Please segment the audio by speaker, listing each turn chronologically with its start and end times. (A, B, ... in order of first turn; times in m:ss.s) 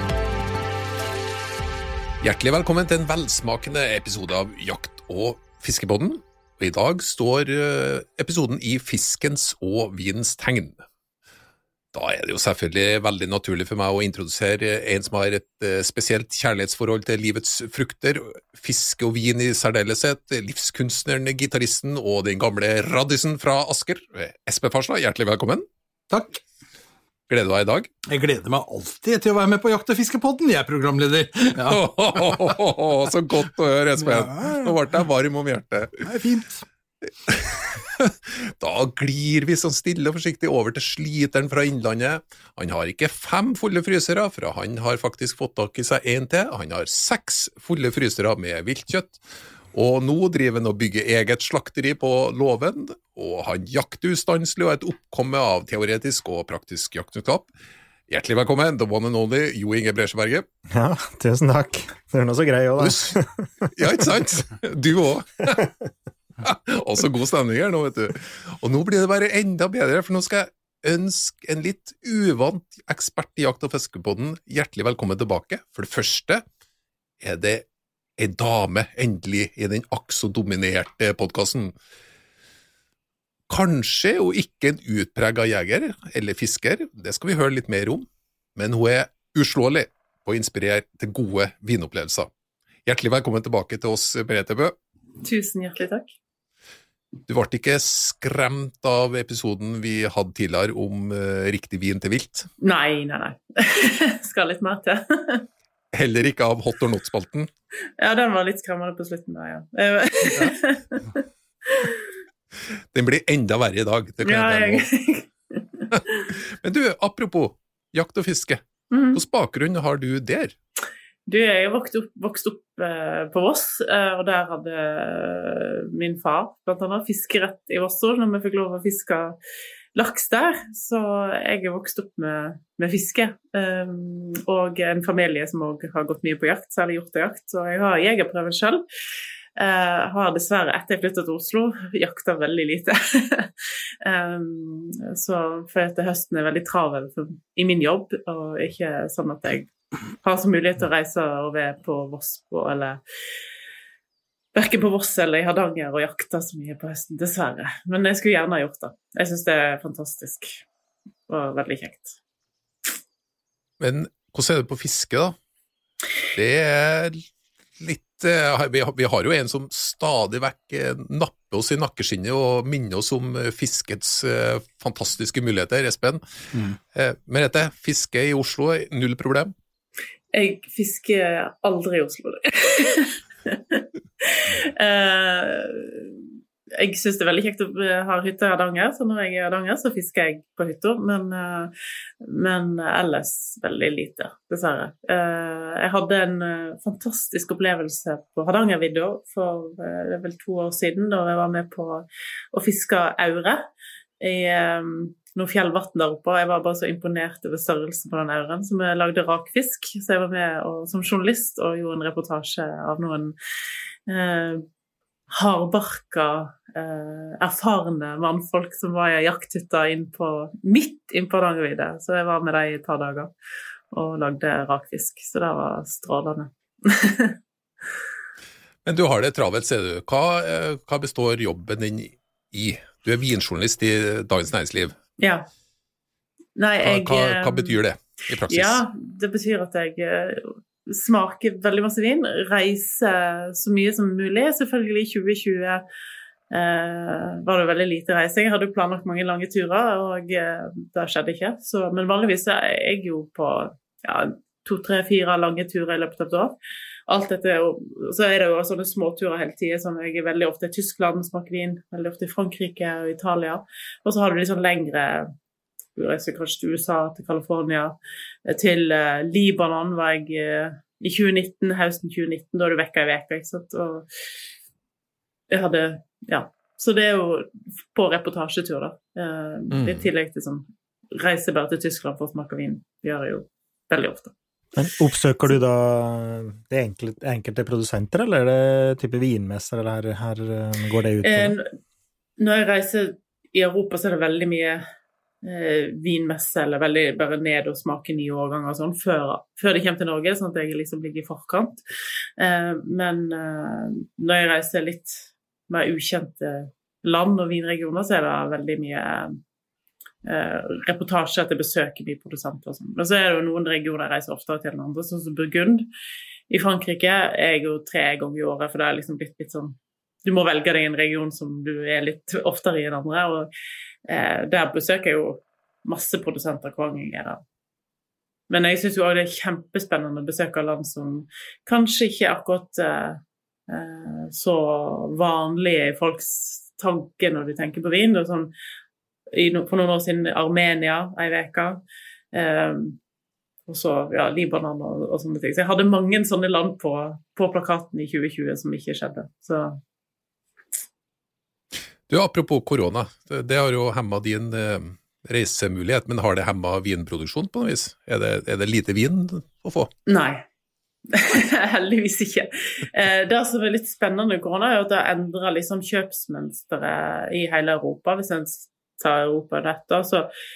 0:02.2-0:10.8 A
0:11.9-0:25.6 A
0:26.1-0:26.4 B
0:27.3-0:27.9 A
0:28.1-0:32.6 B
0:31.6-0:36.0 A
0:34.0-0:34.8 B
0:36.0-0:36.6 B
0:37.2-0:49.2 A
0:49.7-0:57.5 A
0:58.1-1:00.4 A
1:00.7-1:03.7 C
1:02.8-1:03.2 A
1:03.7-1:05.7 A
1:06.4-1:16.4 A
1:17.2-1:17.6 A
1:18.2-1:21.7 A
1:23.5-1:32.3 A
1:32.8-1:34.7 A
1:35.2-1:36.1 D
1:37.3-1:42.5 A
1:42.6-1:45.4 D
1:45.9-1:47.5 A
1:48.0-1:52.0 D
1:52.9-1:54.8 A
1:54.2-1:56.2 D
1:55.9-1:58.6 A
1:58.9-1:59.2 D
1:59.1-2:00.5 A
2:01.3-2:09.4 D
2:09.9-2:18.8 D
2:19.6-2:29.7 D
2:30.2-2:33.0 D
2:34.5-2:40.6 D
2:41.3-2:42.2 D
2:43.8-2:45.4 A
2:46.3-2:47.2 A
2:47.8-2:56.2 A
2:56.9-2:59.5 A
3:00.3-3:23.7 D
3:24.2-3:33.3 D
3:34.1-3:34.6 D
3:35.3-3:43.3 D
3:43.9-3:47.4 D
3:48.8-3:55.0 A
3:55.2-3:55.5 D
3:56.6-3:57.8 D
3:56.8-3:58.8 A
3:58.5-4:05.8 D
4:06.5-4:16.5 D
4:17.1-4:25.3 D
4:26.0-4:34.0 D
4:35.5-4:44.3 D
4:39.7-4:40.0 A
4:44.8-4:51.6 C
4:51.2-4:51.7 D
4:52.4-4:54.8 D
4:55.4-5:01.8 D
5:02.4-5:09.4 D
5:10.2-5:15.9 D
5:16.5-5:23.5 D
5:24.1-5:27.4 D
5:28.5-5:38.5 D
5:39.3-5:41.8 D
5:42.3-5:43.0 D
5:43.7-5:49.8 D
5:52.1-5:59.9 A
6:00.0-6:00.4 D
6:01.1-6:10.3 D